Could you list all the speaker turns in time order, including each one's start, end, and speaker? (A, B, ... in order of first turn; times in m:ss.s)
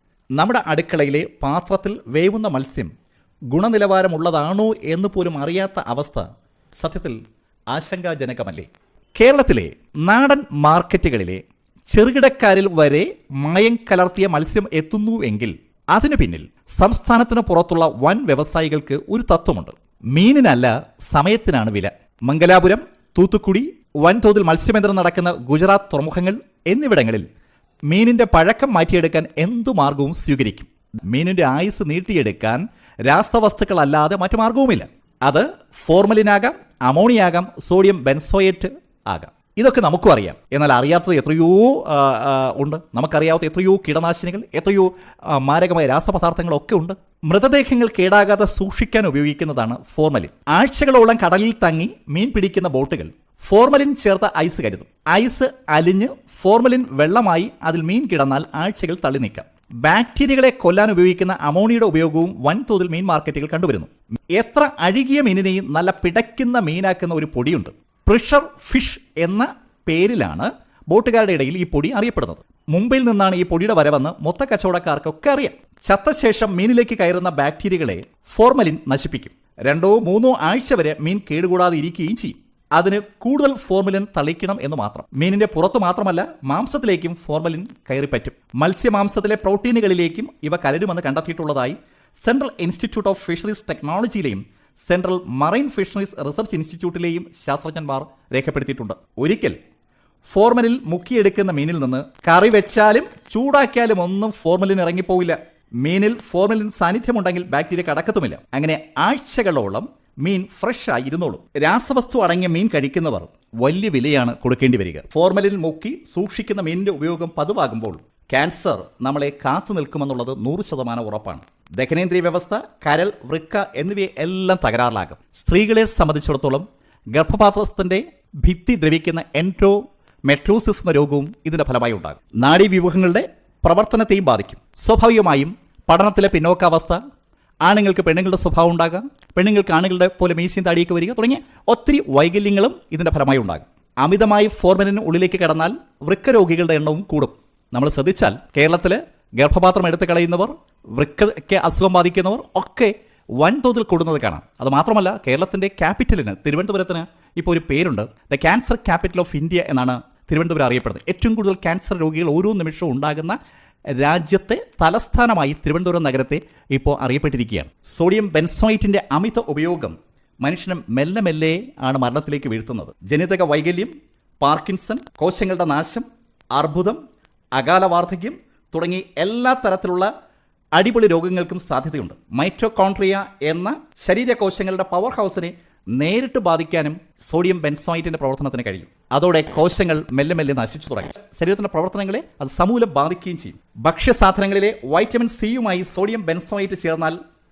0:00.4-0:02.9 A
0:03.5-0:07.2 A
0:07.7-0:27.3 A
0:27.9-1:39.6 A
1:40.3-2:17.0 A
2:17.6-2:43.4 A
2:43.9-2:57.0 A
2:57.6-3:00.1 A
3:00.8-3:17.2 A